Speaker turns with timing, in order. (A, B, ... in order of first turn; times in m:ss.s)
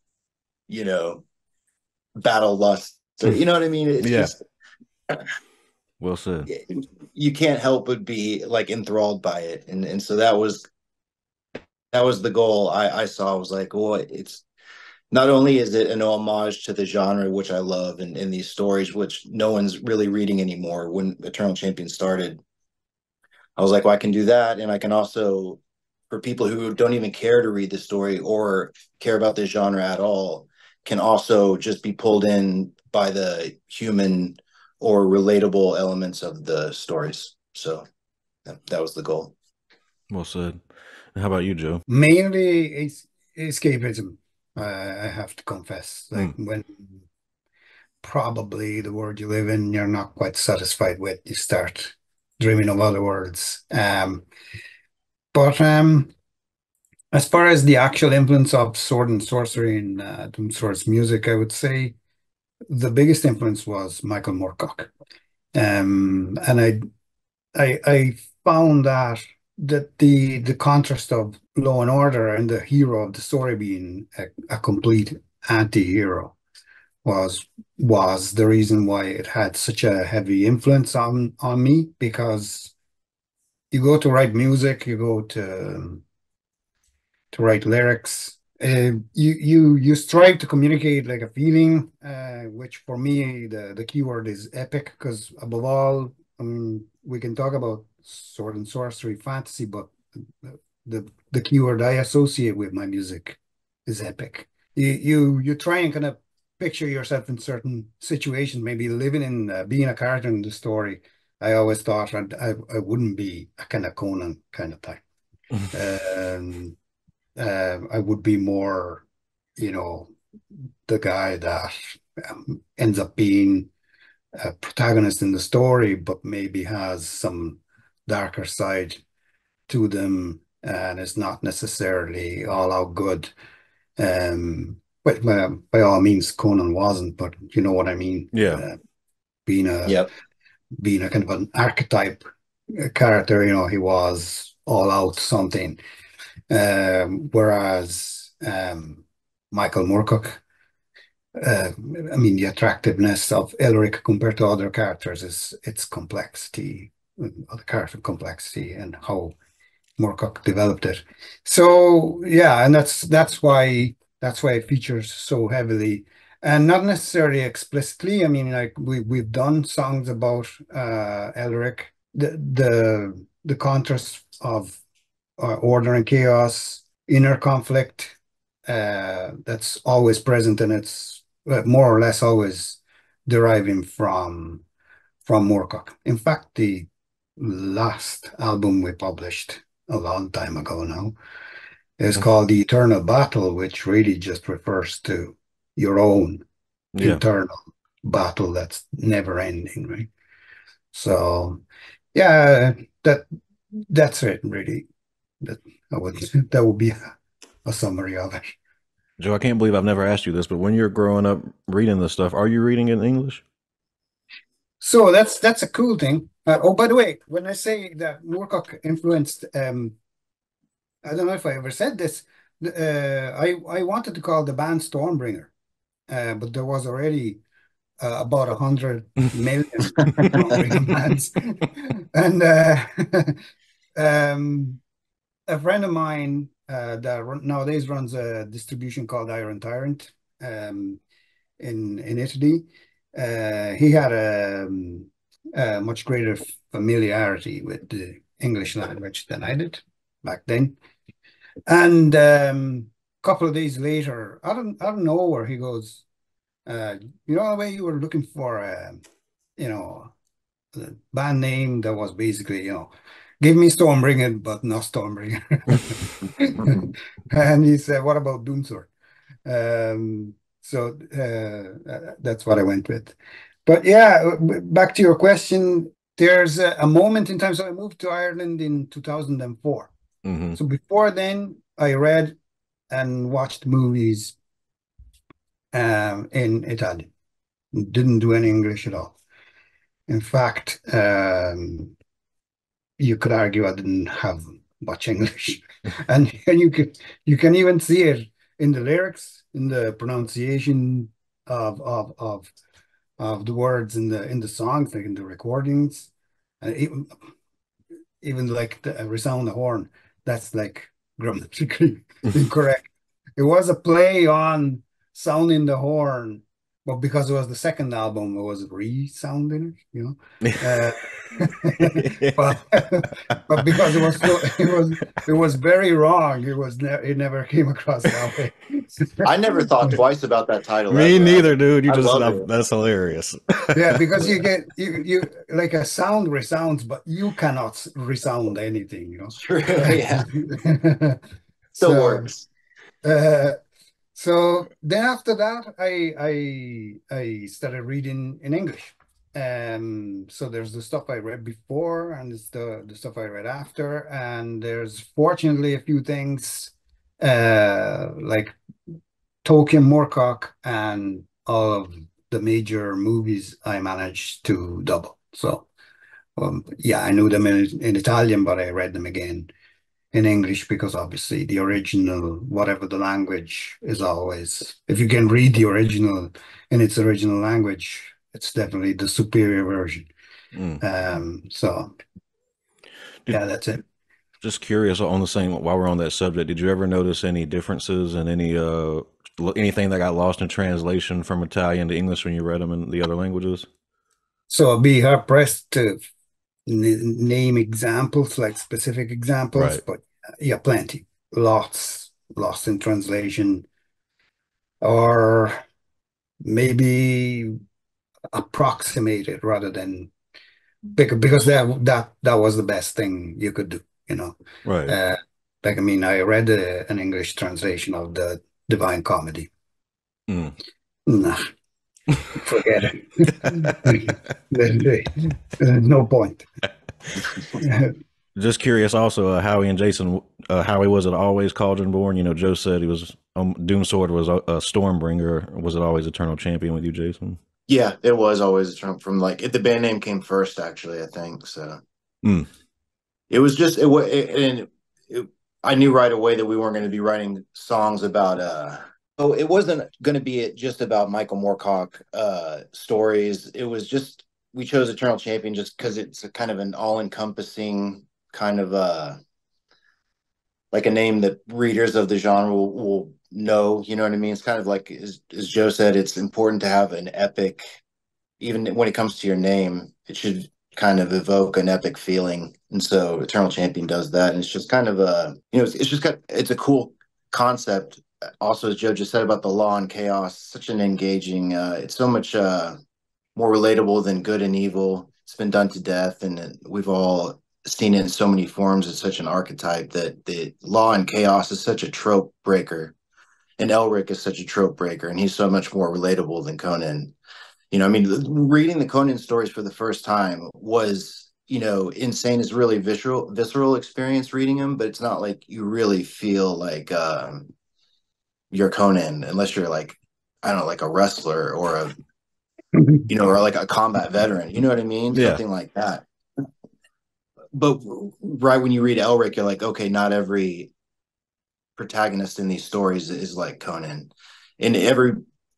0:00.7-0:01.2 A
0:02.1-0:04.4 A
0:04.0-0:04.3 B
0:06.0-0:06.5 B
0:06.5-0:10.6 A
0:11.9-0:14.4 A
0:15.1-0:22.4 A
0:23.6-0:37.8 A
0:38.4-0:39.3 A
0:40.1-0:41.8 B
0:41.9-0:46.9 C
0:48.0-0:54.2 C
0:55.3-0:56.1 C
0:57.1-1:02.0 C
1:02.7-1:04.9 C
1:05.5-1:06.8 C
1:07.5-1:16.4 C
1:17.0-1:22.7 C
1:23.7-1:26.0 C
1:27.3-1:55.0 C
1:55.7-1:56.8 C
1:57.4-1:59.0 C
1:59.6-2:00.1 C
2:00.8-2:03.7 C
2:04.4-2:09.0 C
2:09.7-2:13.3 C
2:14.0-2:18.8 C
2:18.3-2:18.6 B
2:19.4-2:20.0 C
2:20.8-2:25.8 C
2:26.5-2:30.4 C
2:31.4-2:39.3 C
2:40.0-2:54.8 C
2:55.4-2:58.2 C
2:58.7-3:04.6 C
3:05.2-3:11.1 C
3:12.0-3:16.4 C
3:16.9-3:17.2 B
3:17.0-3:20.1 C
3:20.9-3:21.6 C
3:22.1-3:23.2 C
3:23.8-3:24.8 C
3:25.4-3:27.1 C
3:27.6-3:28.5 C
3:29.2-3:33.4 B
3:34.8-3:39.9 C
3:41.0-3:45.5 C
3:46.1-3:47.4 C
3:48.0-3:53.4 C
3:54.0-3:54.8 C
3:55.5-4:01.0 C
4:01.6-4:10.8 C
4:11.7-4:16.0 C
4:16.6-4:19.0 C
4:19.6-4:20.1 C
4:20.7-4:28.9 C
4:29.4-4:33.1 C
4:33.6-4:39.9 C
4:40.2-4:40.6 B
4:40.6-4:42.4 C
4:42.9-4:44.3 C
4:45.7-4:47.1 C
4:47.7-4:49.2 C
4:50.1-4:51.9 C
4:53.0-5:02.5 C
5:03.2-5:06.1 C
5:06.6-5:07.2 C
5:08.2-5:29.3 C
5:21.8-5:22.5 B
5:23.6-5:24.4 B
5:29.2-5:32.5 A
5:30.9-5:34.3 B
5:33.7-5:41.2 C
5:39.3-5:40.3 A
5:41.7-5:42.3 C
5:41.8-5:42.4 A
5:43.0-5:43.6 C
5:44.1-5:58.6 C
5:59.4-6:05.7 C
6:06.4-6:09.5 C
6:10.1-6:20.1 C
6:20.5-6:20.8 B
6:20.8-6:21.9 C
6:23.3-6:23.8 C
6:24.4-6:33.7 B
6:34.5-6:36.0 C
6:36.6-6:43.6 C
6:39.5-6:39.8 B
6:44.8-6:45.6 C
6:46.4-6:47.6 C
6:48.3-6:50.1 C
6:50.9-6:54.3 C
6:54.6-6:55.0 B
6:54.9-6:59.5 C
7:00.3-7:00.5 B
7:01.1-7:01.5 C
7:02.3-7:06.5 C
7:07.6-7:07.9 C
7:08.4-7:17.4 B
7:17.7-7:21.8 A
7:22.2-7:22.5 B
7:23.3-7:39.2 A
7:40.7-7:47.8 A
7:48.4-8:02.8 A
8:03.3-8:12.9 A
8:13.6-8:17.1 A
8:17.7-8:27.5 A
8:28.5-8:31.9 A
8:33.1-8:36.4 A
8:35.1-8:35.4 B
8:37.5-8:40.7 A
8:41.8-8:45.2 A